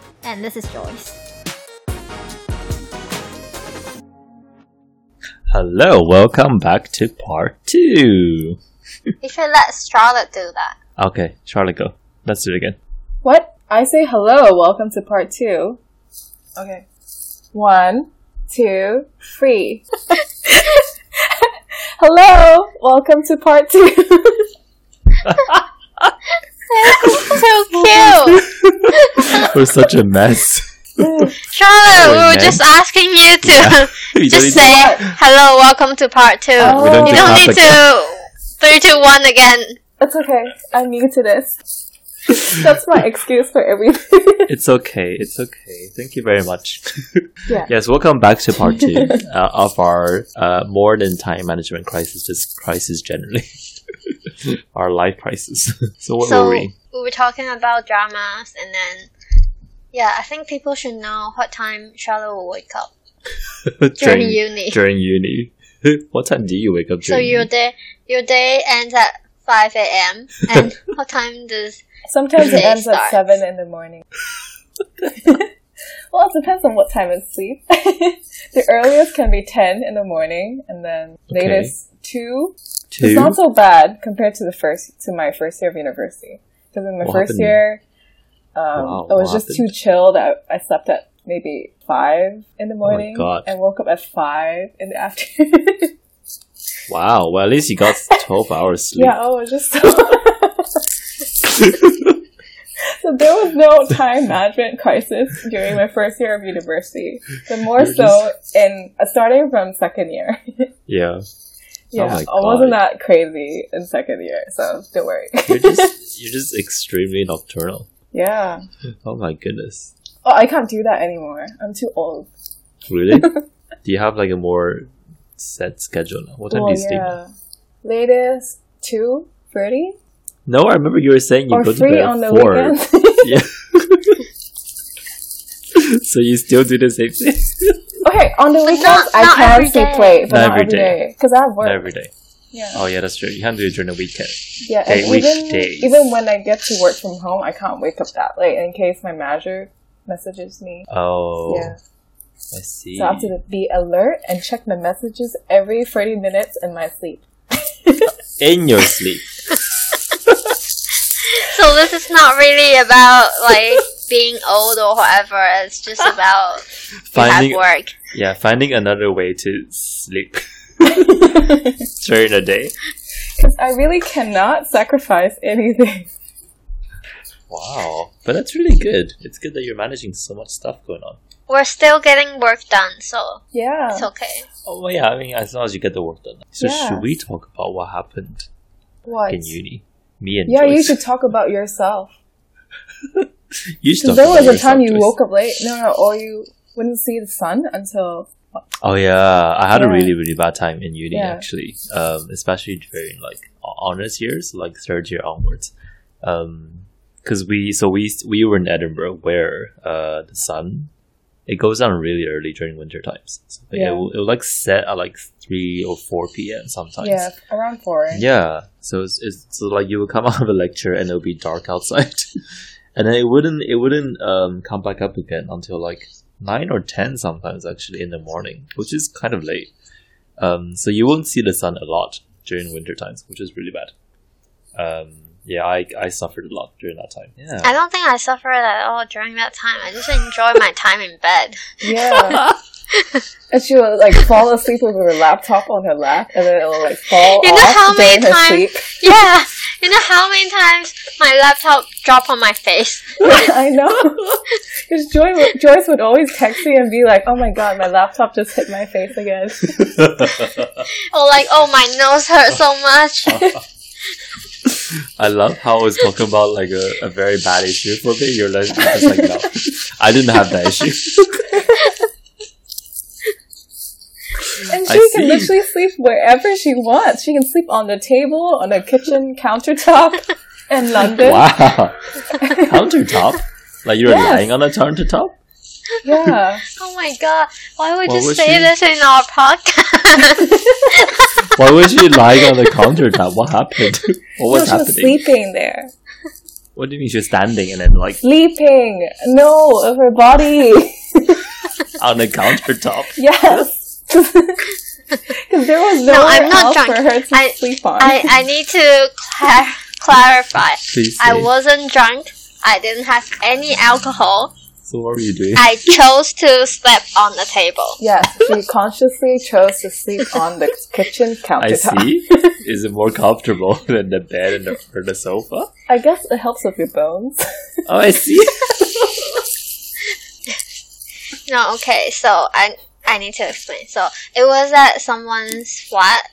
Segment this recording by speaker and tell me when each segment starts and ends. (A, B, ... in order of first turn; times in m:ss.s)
0:00.2-0:01.2 A
0:05.5-0:09.1 B
0:09.2-0:10.8 A
0:11.0-0:12.8 B
0:13.2-0:15.8 C
0:16.6-0:16.8 C
0:17.5-0:24.5 C
0:25.2-0:26.2 B
0:26.7-0:29.6 A
0:27.0-0:27.4 B
0:28.0-0:31.3 B
0:31.0-0:31.3 C
0:31.4-0:39.8 A
0:31.9-0:32.6 B
0:33.4-0:35.1 B
0:34.5-0:35.1 C
0:36.6-0:37.8 B
0:36.6-0:37.5 C
0:40.0-0:41.6 C
0:42.3-0:44.5 C
0:44.5-0:53.5 B
0:48.9-0:49.2 C
0:54.1-0:56.7 B
0:56.2-0:59.1 A
0:59.9-1:02.9 A
1:03.6-1:07.5 B
1:04.0-1:04.8 A
1:07.1-1:11.8 A
1:12.1-1:14.1 C
1:12.4-1:13.4 A
1:15.1-1:15.5 C
1:16.1-1:27.8 C
1:21.3-1:21.7 B
1:22.9-1:23.4 B
1:27.0-1:27.6 B
1:28.6-1:35.9 C
1:28.8-1:29.7 B
1:32.8-1:33.5 B
1:36.9-1:39.2 B
1:39.0-1:40.8 C
1:41.4-1:42.2 B
1:42.9-1:50.7 C
1:47.7-1:48.3 B
1:50.9-1:51.2 B
1:51.9-1:55.9 C
1:51.9-1:52.8 B
1:55.5-1:57.9 B
1:58.1-1:58.6 C
1:59.0-1:59.9 B
2:00.2-2:02.3 C
2:02.8-2:07.2 B
2:03.1-2:03.4 C
2:06.5-2:07.3 C
2:07.8-2:10.0 C
2:10.5-2:14.2 B
2:11.5-2:13.4 C
2:15.7-2:17.9 B
2:18.0-2:21.8 C
2:18.7-2:20.2 A
2:20.3-2:21.0 B
2:21.6-2:22.1 B
2:22.5-2:22.8 C
2:22.7-2:26.1 B
2:24.6-2:30.9 C
2:30.9-2:31.7 B
2:31.5-2:31.8 C
2:32.5-2:33.3 B
2:33.0-2:37.3 C
2:37.8-2:38.1 C
2:38.4-2:39.3 B
2:41.3-2:48.0 A
2:47.1-2:51.1 B
2:50.9-2:51.8 C
2:52.0-2:52.7 B
2:53.4-2:56.1 C
2:57.5-3:01.2 B
3:01.5-3:04.5 A
3:03.5-3:04.1 C
3:04.6-3:08.5 B
3:06.6-3:07.1 C
3:09.1-3:09.6 C
3:09.3-3:11.0 B
3:10.5-3:12.1 C
3:13.8-3:15.1 B
3:14.0-3:18.6 C
3:18.8-3:30.9 B
3:19.7-3:20.1 C
3:21.1-3:21.4 C
3:31.5-3:37.3 B
3:33.7-3:34.1 C
3:37.0-3:38.3 C
3:38.1-3:42.3 B
3:43.0-3:49.7 B
3:50.4-3:53.9 B
3:54.8-3:57.8 B
3:57.6-4:03.2 A
4:01.8-4:02.4 C
4:03.5-4:08.9 C
4:07.2-4:13.4 A
4:13.2-4:14.2 C
4:14.9-4:20.3 C
4:19.7-4:20.9 B
4:21.1-4:23.5 A
4:24.6-4:31.6 B
4:34.5-4:35.5 B
4:34.6-4:41.5 C
4:41.2-4:42.0 B
4:42.3-4:42.8 C
4:42.5-4:45.4 B
4:44.1-4:44.5 C
4:46.0-4:46.6 C
4:46.8-4:51.5 A
4:48.0-4:48.7 B
4:50.4-4:50.9 C
4:51.5-4:55.2 B
4:54.5-4:55.9 C
4:56.8-4:58.2 B
4:58.2-5:01.5 C
5:02.0-5:03.6 B
5:03.2-5:04.6 C
5:05.3-5:08.3 C
5:06.1-5:14.5 A
5:10.9-5:11.5 B
5:14.8-5:15.8 B
5:15.6-5:18.0 A
5:18.0-5:22.6 C
5:21.6-5:25.7 B
5:25.9-5:27.4 C
5:27.9-5:29.4 B
5:31.5-5:36.3 A